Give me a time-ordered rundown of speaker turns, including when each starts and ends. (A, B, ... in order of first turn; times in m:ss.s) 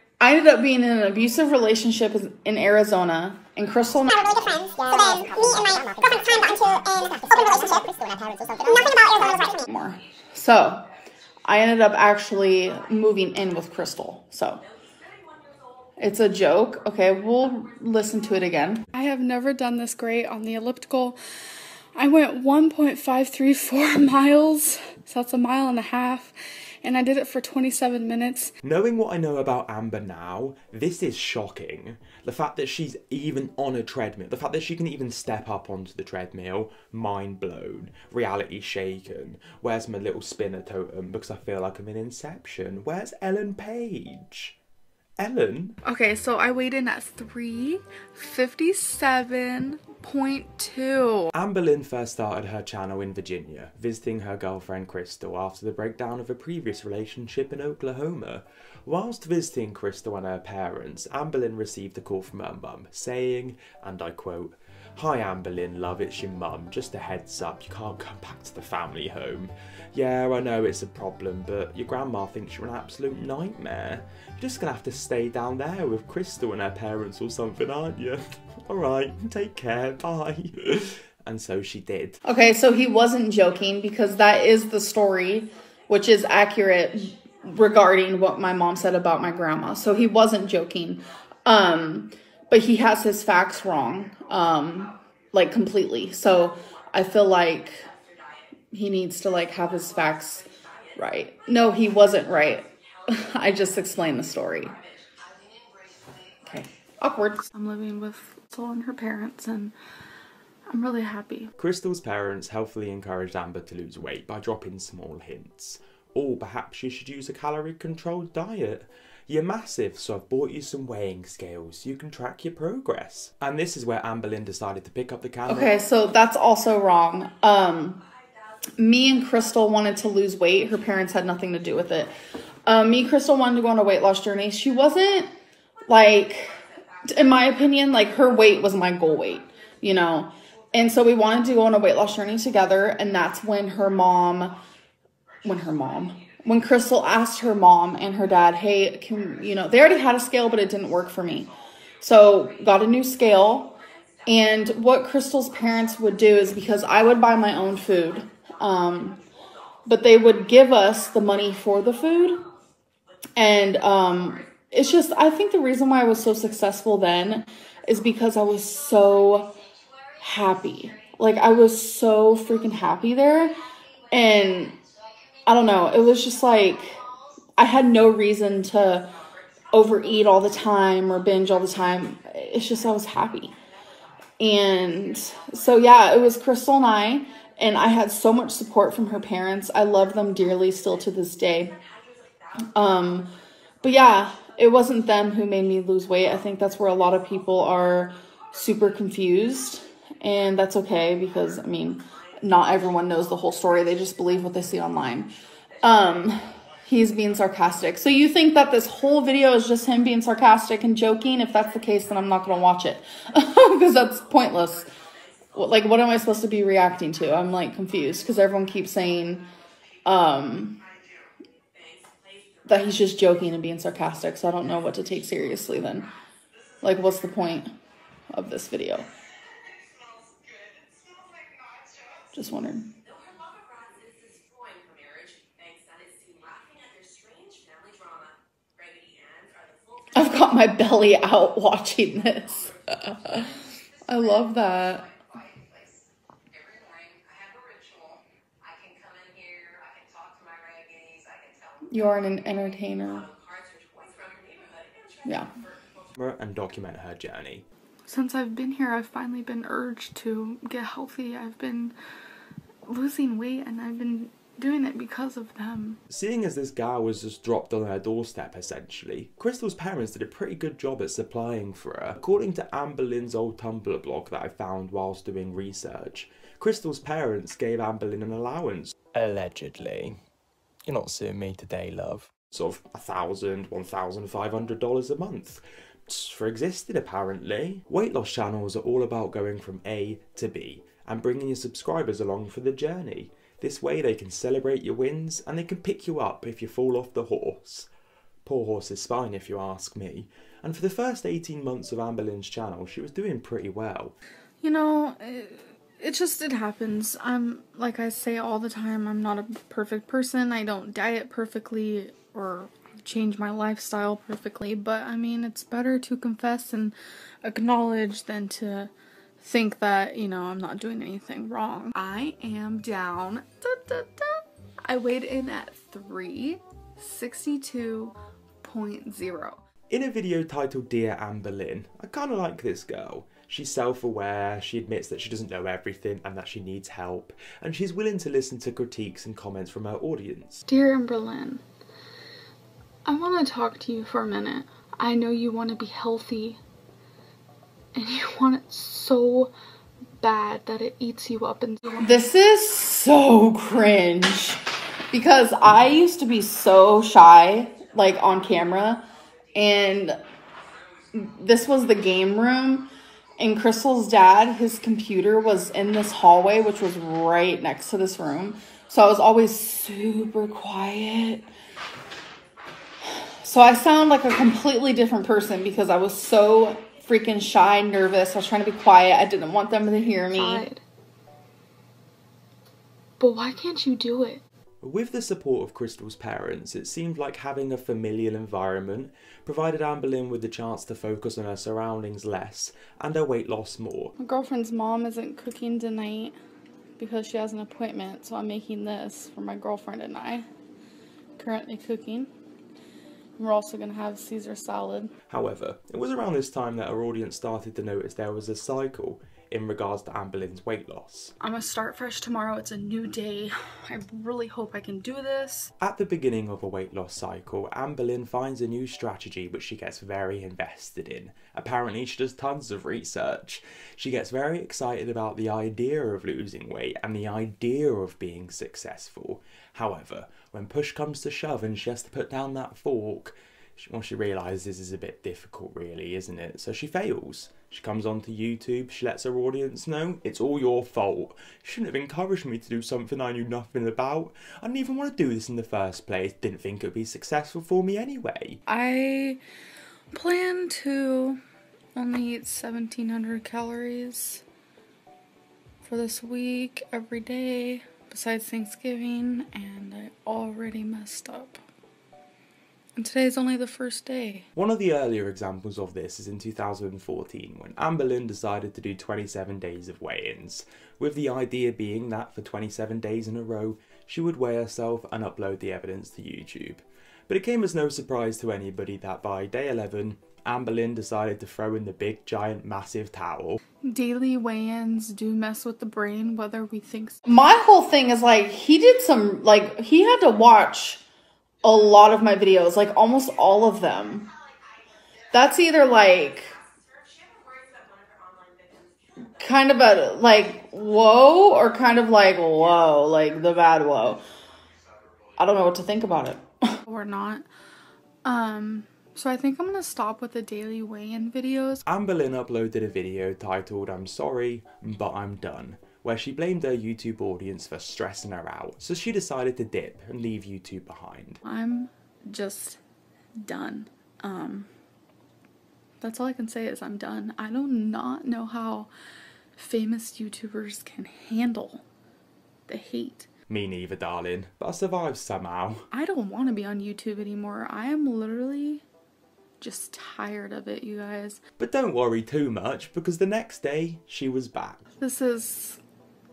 0:00.2-0:04.2 A
0:04.1-0:09.6 B
0:09.6-0:10.9 A
0:11.5-0:14.6 A
0:14.9-0:15.9 C
0:16.0-0:18.9 A
0:18.9-0:21.2 D
0:22.0-0:28.6 D
0:28.6-0:44.6 E
0:45.2-0:45.8 E
0:45.8-0:51.3 D
0:51.3-1:22.2 E
1:22.2-1:37.9 A
1:38.7-1:44.8 A
1:43.1-1:46.4 C
1:46.4-1:47.4 A
1:47.5-1:49.7 D
1:50.7-1:51.5 D
1:51.6-2:05.7 E
2:05.5-2:08.0 A
2:08.8-2:12.1 A
2:12.7-2:15.3 A
2:15.9-2:24.6 A
2:25.4-2:31.5 A
2:32.0-2:39.2 A
2:39.9-2:42.4 A
2:43.4-2:49.6 A
2:49.7-2:50.2 C
2:50.2-2:53.6 A
2:54.1-2:54.8 A
2:54.2-2:56.1 C
2:55.5-2:57.0 A
2:56.9-2:57.3 C
2:57.6-2:59.1 A
2:59.1-2:59.9 C
2:59.7-3:03.6 A
3:04.4-3:11.8 A
3:12.7-3:34.9 A
3:35.6-3:39.5 A
3:40.0-3:40.8 A
3:40.8-3:42.7 C
3:42.7-3:46.1 A
3:46.8-3:47.7 A
3:48.3-3:49.1 A
3:49.6-3:52.2 C
3:52.3-3:52.9 A
3:53.0-4:00.9 C
4:00.1-4:03.5 A
4:02.3-4:16.1 C
4:04.1-4:05.1 A
4:11.9-4:13.3 A
4:15.2-4:15.5 A
4:16.2-4:17.6 E
4:18.1-4:21.9 D
4:22.9-4:26.0 D
4:26.1-4:40.2 E
4:40.9-4:57.9 E
4:58.4-5:04.1 E
5:04.6-5:29.6 D
5:29.9-5:40.6 E
5:40.7-5:41.6 D
5:43.0-5:46.6 D
5:48.0-5:49.5 D
5:50.2-5:52.1 D
5:52.0-5:54.6 A
5:55.1-6:00.2 A
6:01.1-6:11.5 A
6:13.1-6:20.6 A
6:20.3-6:20.8 D
6:23.2-6:24.4 D
6:24.8-6:34.1 E
6:34.2-6:36.4 D
6:37.0-6:40.5 D
6:41.4-6:42.3 D
6:43.4-6:45.1 D
6:45.3-6:51.3 E
6:51.4-6:55.7 D
6:55.8-7:28.6 E
7:28.7-7:29.4 D
7:30.1-7:31.4 D
7:32.0-7:34.4 D
7:35.8-7:41.6 D
7:43.0-7:44.5 D
7:44.6-8:03.6 E
8:03.8-8:07.2 D
8:07.2-8:11.0 A
8:11.6-8:14.3 A
8:14.3-8:19.3 C
8:15.3-8:16.5 A
8:19.4-8:24.2 A
8:25.4-8:26.8 A
8:26.9-8:27.5 D
8:28.2-8:31.8 D
8:31.9-8:41.4 E
8:41.4-8:42.8 D
8:43.4-8:44.7 D
8:46.0-8:48.9 D
8:49.6-8:51.8 D
8:52.7-8:53.3 D
8:53.5-8:55.9 E
8:55.9-8:58.8 D
8:59.6-9:01.4 D
9:01.6-9:04.8 E
9:05.0-9:05.8 D